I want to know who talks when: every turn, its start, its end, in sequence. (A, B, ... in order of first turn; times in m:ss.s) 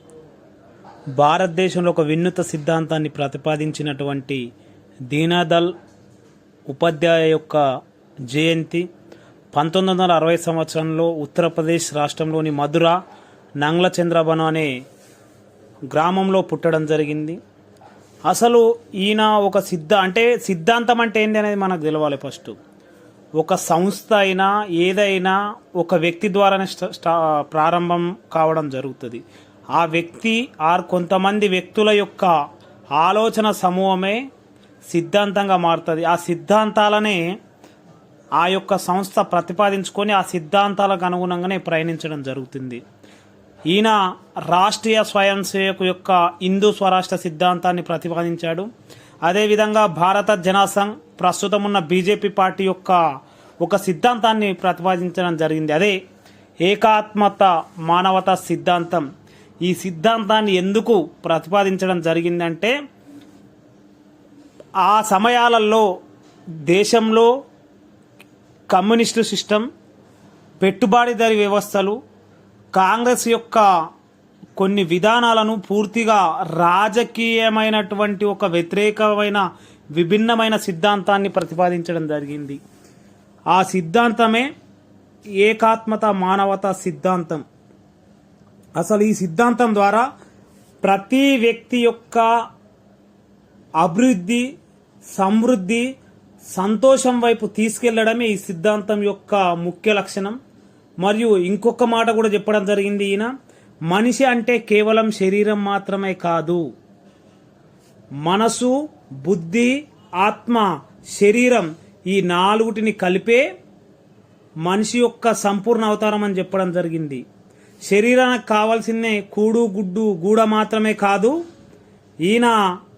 0:01.2-0:04.4 A
0:05.1-0:05.7 A
0:06.7-0:07.6 A
0:08.3-0:08.8 A
0:09.5-0:13.0 A
0:13.6-0:14.7 A
0:15.9-0:17.4 A
0:18.3-0:22.5 A
0:23.4-0:32.3 A
0:33.0-0:34.2 A
0:34.9-0:37.3 A
0:38.4-0:42.8 A
0:43.7-0:48.7 A
0:49.2-0:53.0 A
0:53.6-0:56.0 A
0:56.6-0:59.0 A
0:59.6-1:02.7 A
1:04.8-1:05.8 A
1:06.6-1:07.3 A
1:08.7-1:09.6 A
1:10.6-1:12.0 A
1:12.7-1:13.7 A
1:14.6-1:22.6 A
1:23.5-1:24.5 A
1:25.4-1:27.4 A
1:28.8-1:30.0 A
1:30.8-1:32.3 A
1:33.8-1:34.4 A
1:35.1-1:35.9 A
1:36.5-1:40.4 A
1:41.0-1:43.3 A
1:43.9-1:46.6 A
1:48.2-1:53.4 A
1:54.6-1:57.2 A
1:57.9-2:01.4 A
2:02.2-2:02.5 A